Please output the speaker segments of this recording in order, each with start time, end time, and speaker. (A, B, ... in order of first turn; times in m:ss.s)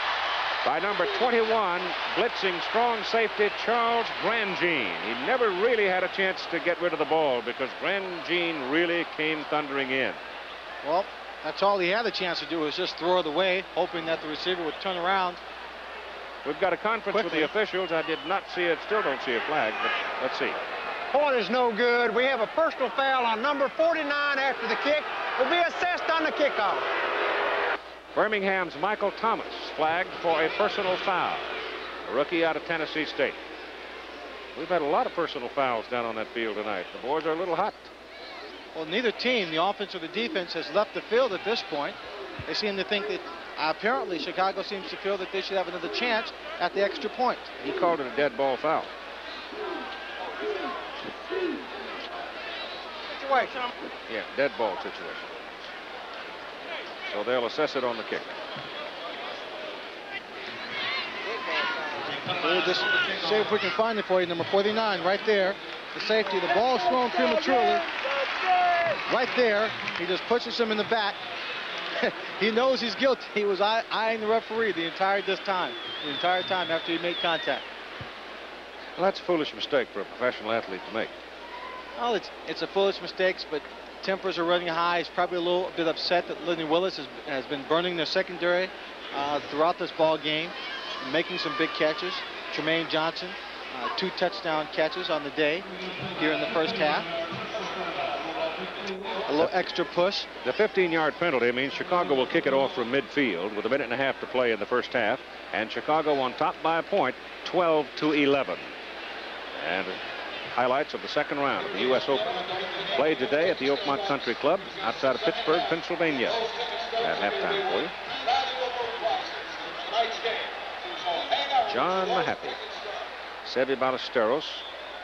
0:00.6-0:10.2 A
0:10.8-0:15.4 B
0:16.4-0:20.6 A
0:17.1-0:17.5 B
0:21.1-0:26.9 C
0:28.2-0:33.4 A
0:34.6-0:37.9 A
0:38.7-0:47.5 B
0:47.6-0:48.9 A
0:53.1-0:53.6 B
0:54.1-0:55.4 A
0:57.1-0:58.4 A
1:02.4-1:07.9 B
1:09.1-1:11.2 B
1:12.0-1:17.7 B
1:19.0-1:21.1 A
1:22.0-1:37.1 B
1:39.3-1:40.3 B
1:40.4-1:48.7 A
1:49.6-1:50.0 A
1:50.5-1:56.4 A
1:57.0-1:57.9 A
2:01.6-2:02.6 A
2:03.4-2:04.6 A